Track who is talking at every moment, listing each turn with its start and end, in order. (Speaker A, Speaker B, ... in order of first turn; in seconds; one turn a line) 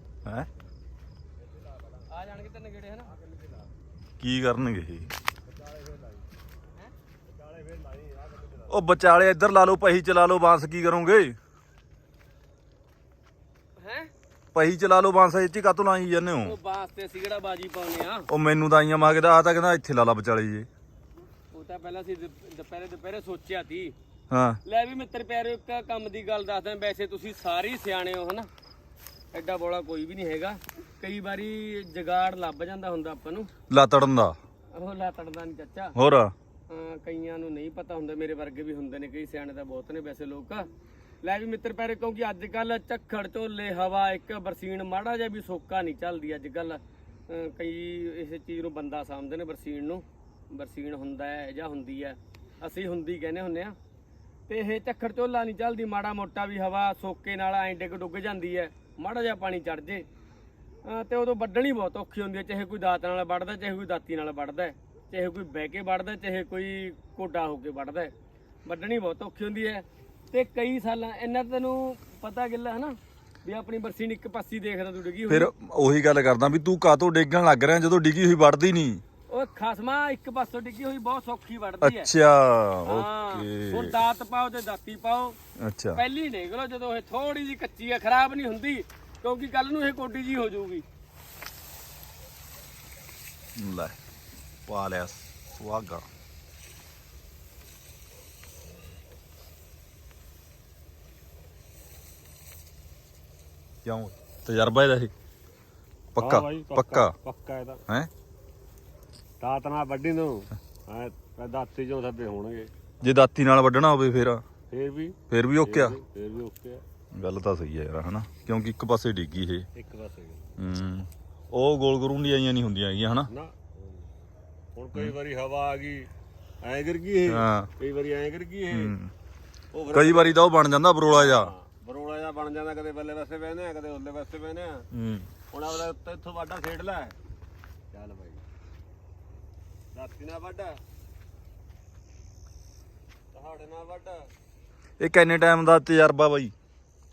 Speaker A: 2.1-3.1
Speaker B: 4.2-5.1
Speaker C: 5.5-6.2
Speaker C: 7.3-8.7
Speaker B: 8.7-11.4
Speaker A: 13.8-14.1
Speaker B: 14.5-16.6
Speaker A: 16.4-18.3
Speaker B: 18.3-20.7
Speaker A: 21.5-23.9
Speaker B: 24.3-24.6
Speaker A: 24.6-28.5
Speaker A: 29.3-33.5
Speaker B: 33.7-34.4
Speaker A: 34.7-36.0
Speaker B: 36.0-36.3
Speaker A: 36.7-40.7
Speaker A: 41.2-53.8
Speaker A: 54.5-60.0
Speaker A: 60.8-68.1
Speaker A: 68.7-75.5
Speaker B: 75.3-79.0
Speaker A: 79.3-82.1
Speaker B: 81.8-84.0
Speaker A: 82.9-85.4
Speaker B: 85.6-86.0
Speaker A: 86.0-90.8
Speaker B: 93.6-94.0
Speaker B: 94.7-96.0
Speaker B: 103.8-105.1
Speaker B: 106.2-107.2
Speaker C: 106.2-107.8
Speaker C: 109.4-112.7
Speaker B: 113.0-114.4
Speaker C: 114.7-116.8
Speaker B: 115.3-116.0
Speaker B: 117.2-119.7
Speaker C: 119.8-120.6
Speaker B: 120.6-123.3
Speaker C: 123.3-124.0
Speaker C: 124.8-126.1
Speaker C: 126.6-128.9
Speaker B: 127.3-127.7
Speaker B: 128.7-129.1
Speaker C: 129.7-130.4
Speaker B: 129.9-131.5
Speaker C: 131.1-134.9
Speaker B: 134.9-135.3
Speaker C: 135.5-137.2
Speaker C: 137.9-138.4
Speaker C: 139.9-140.8
Speaker C: 143.3-144.3
Speaker B: 145.0-146.5